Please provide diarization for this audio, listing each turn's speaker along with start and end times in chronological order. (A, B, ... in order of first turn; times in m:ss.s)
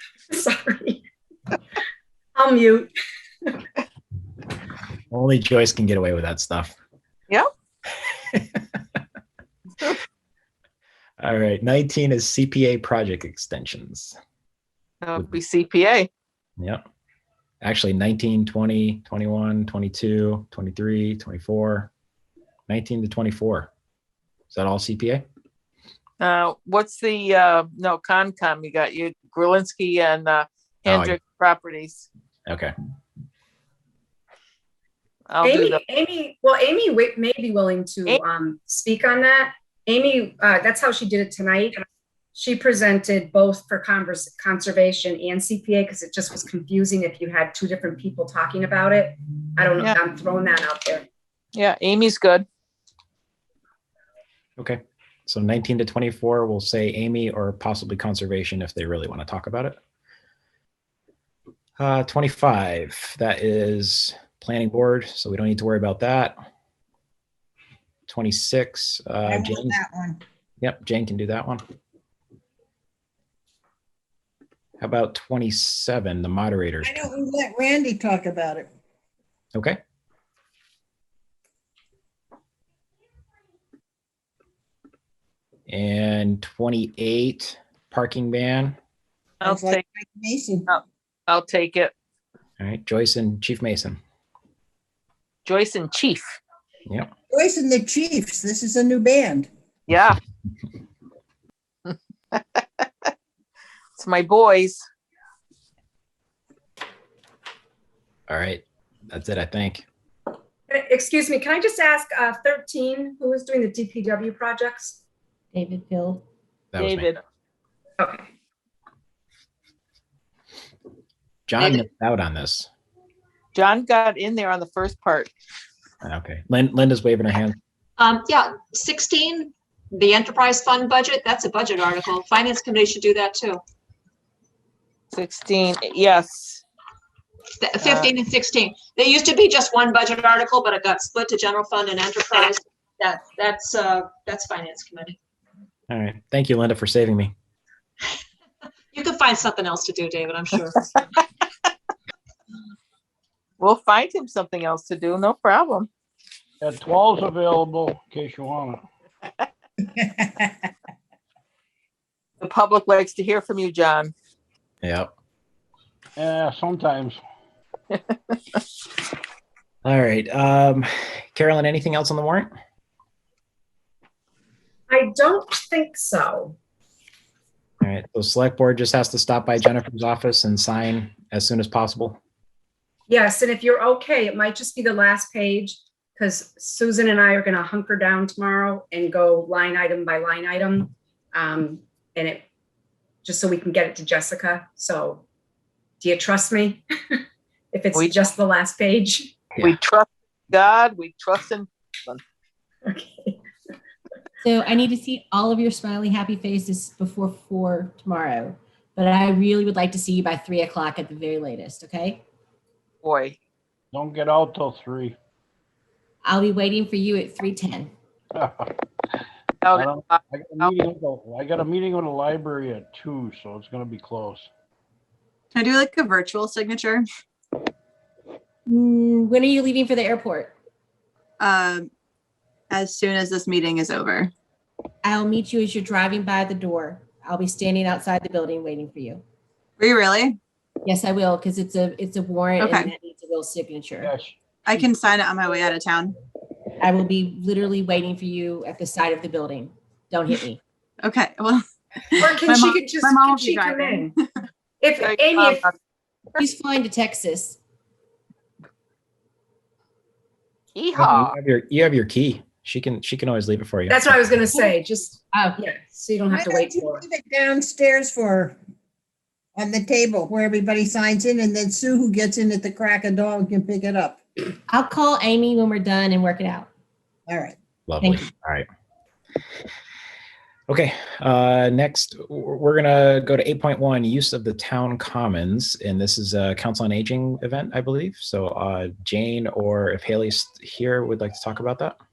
0:00.3-0:01.1 A
0:02.4-0:02.9 A
0:05.1-0:06.8 B
0:08.3-0:08.8 B
0:11.2-0:14.2 B
0:15.0-0:16.1 C
0:17.6-0:21.9 B
0:22.7-0:23.7 B
0:24.5-0:25.2 B
0:26.2-0:32.1 C
0:30.9-0:31.2 B
0:32.5-0:32.7 B
0:35.3-0:35.8 C
0:35.4-0:51.1 A
0:51.6-0:52.5 C
0:54.6-0:59.8 B
1:01.8-1:06.4 B
1:08.1-1:09.8 B
1:09.3-1:10.2 D
1:10.6-1:11.6 B
1:14.8-1:17.1 B
1:16.8-1:18.7 D
1:25.7-1:28.8 B
1:29.4-1:29.8 C
1:29.5-1:30.7 D
1:30.7-1:31.9 C
1:32.6-1:34.0 B
1:35.4-1:36.4 C
1:37.3-1:39.5 D
1:39.9-1:40.2 C
1:44.0-1:44.8 C
1:48.3-1:49.8 B
1:50.7-1:55.0 A
1:55.5-1:56.2 E
1:56.7-1:57.1 B
1:56.8-1:57.2 C
1:58.0-1:58.2 A
2:01.5-2:02.7 B
2:03.6-2:05.3 C
2:06.0-2:07.6 B
2:08.0-2:13.6 F
2:15.1-2:16.6 C
2:17.6-2:25.2 F
2:17.8-2:18.1 C
2:25.9-2:27.3 B
2:28.9-2:31.0 F
2:33.6-2:35.9 C
2:36.6-2:38.8 G
2:42.4-2:44.1 C
2:44.8-2:45.1 B
2:46.2-2:47.2 G
2:47.9-2:48.4 C
2:49.8-2:52.5 B
2:54.9-2:56.6 A
2:57.8-3:02.2 B
3:03.1-3:12.5 A
3:13.2-3:15.2 A
3:16.0-3:17.2 A
3:17.7-3:19.3 A
3:17.9-3:18.2 C
3:19.6-3:22.2 C
3:22.9-3:23.4 A
3:24.4-3:32.2 E
3:33.0-3:33.4 C
3:33.9-3:35.2 G
3:36.2-3:37.9 E
3:38.3-3:38.7 G
3:39.6-3:40.7 C
3:39.7-3:44.5 G
3:45.5-3:47.1 H
3:48.7-3:50.6 E
3:51.4-3:51.9 H
3:52.7-3:54.3 H
3:55.0-3:59.2 E
3:59.8-4:00.4 H
4:00.8-4:04.1 E
4:02.6-4:02.9 H
4:04.0-4:05.0 G
4:04.6-4:06.2 H
4:06.8-4:10.6 E
4:11.0-4:14.2 H
4:12.2-4:14.1 A
4:14.8-4:15.7 A
4:15.0-4:15.7 C
4:16.4-4:17.6 E
4:20.8-4:21.4 C
4:21.0-4:24.2 B
4:23.9-4:27.0 A
4:25.3-4:25.6 E
4:26.3-4:28.6 D
4:29.6-4:34.2 D
4:34.7-4:36.7 E
4:37.3-4:37.6 D
4:37.9-4:38.7 B
4:38.0-4:38.3 E
4:40.7-4:52.0 B